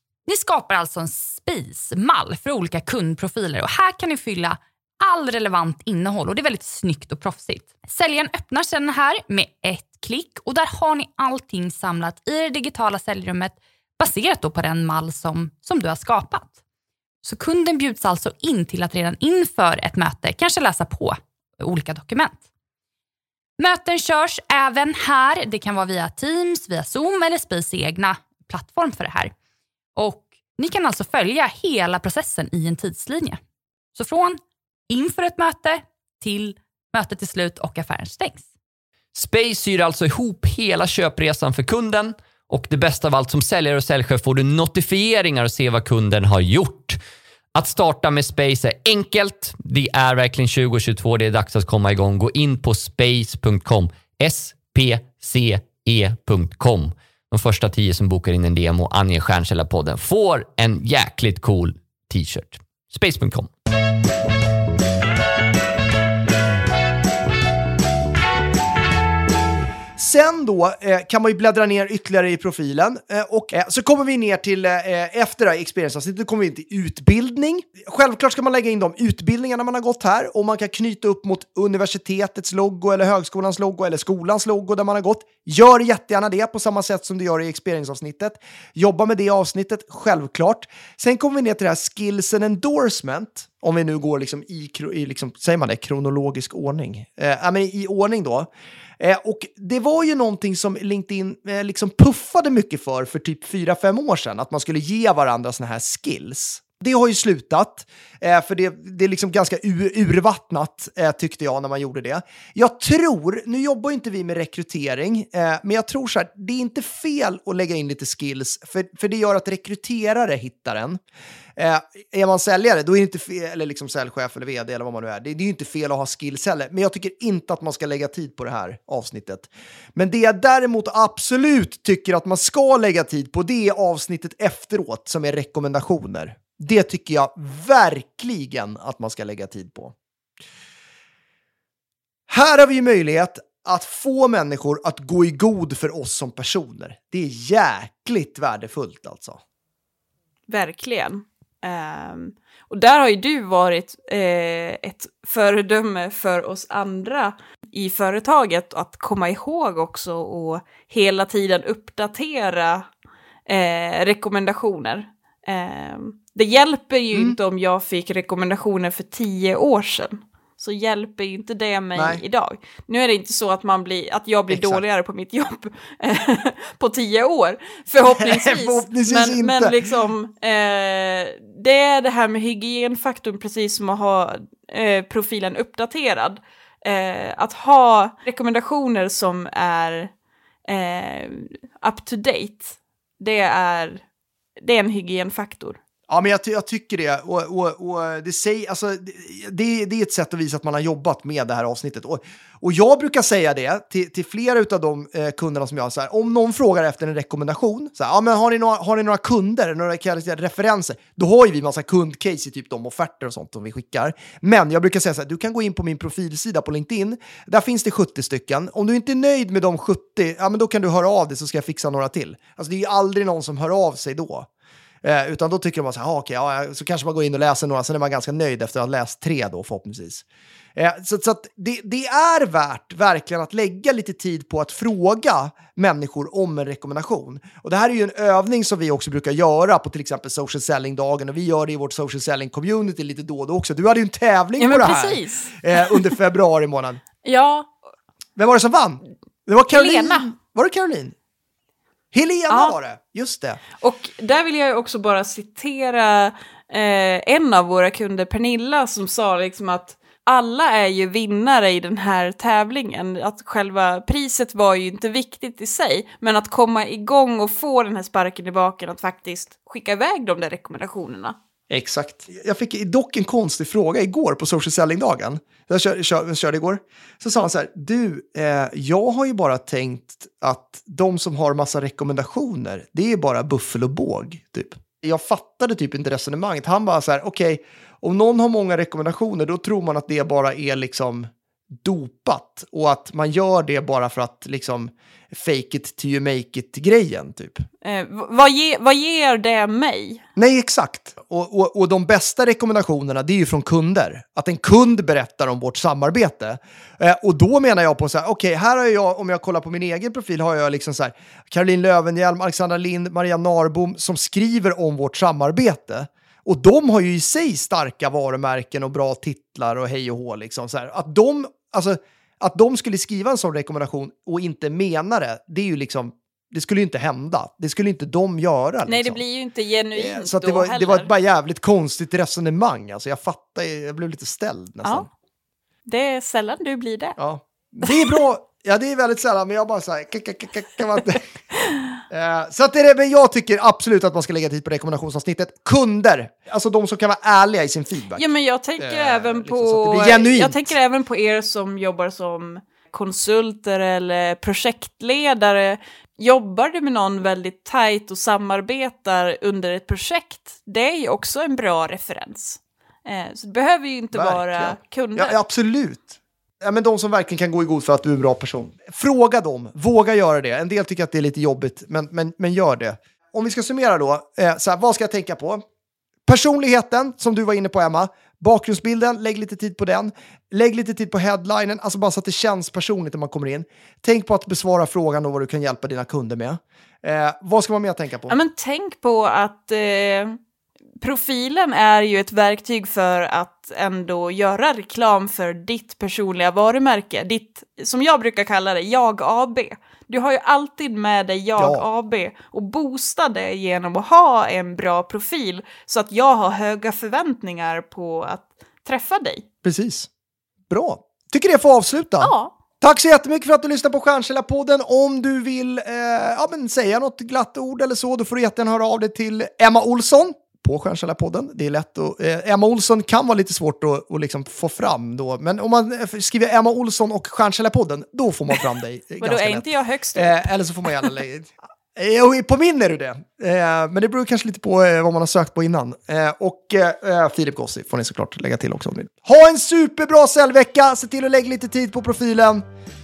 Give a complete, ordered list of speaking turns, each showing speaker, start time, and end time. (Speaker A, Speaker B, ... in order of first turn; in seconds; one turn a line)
Speaker A: 0.3-16.5
Speaker A: 17.2-22.4
Speaker A: 23.6-29.3
Speaker A: 29.9-33.4
Speaker A: 34.0-34.4
Speaker A: 34.9-38.5
Speaker B: 39.1-47.0
Speaker B: 47.5-63.5
Speaker C: 70.0-98.5
Speaker C: 99.0-121.0
Speaker C: 121.6-139.9
Speaker C: 142.3-149.4
Speaker D: 150.5-162.9
Speaker D: 163.5-190.1
Speaker C: 172.0-172.2
Speaker C: 174.5-174.8
Speaker C: 178.2-179.8
Speaker D: 190.7-194.0
Speaker D: 194.6-195.8
Speaker C: 196.1-224.5
Speaker C: 225.0-230.2
Speaker C: 230.8-247.0
Speaker D: 244.6-246.1
Speaker D: 247.2-247.7
Speaker C: 248.4-251.2
Speaker D: 249.7-250.3
Speaker C: 252.1-253.6
Speaker D: 252.5-252.8
Speaker D: 253.8-271.4
Speaker C: 271.7-291.3
Speaker C: 291.8-297.7
Speaker D: 297.8-300.2
Speaker C: 300.4-329.2
Speaker D: 328.9-331.1
Speaker C: 330.0-335.1
Speaker D: 335.9-337.2
Speaker C: 337.2-341.3
Speaker D: 337.9-338.2
Speaker C: 342.1-348.2
Speaker D: 348.1-365.4
Speaker C: 348.8-350.7
Speaker C: 364.1-375.6
Speaker C: 376.3-388.4
Speaker D: 388.3-390.4
Speaker D: 391.0-409.5
Speaker C: 401.6-401.9
Speaker C: 409.6-410.1
Speaker C: 410.7-442.6
Speaker D: 412.2-412.5
Speaker D: 429.2-430.5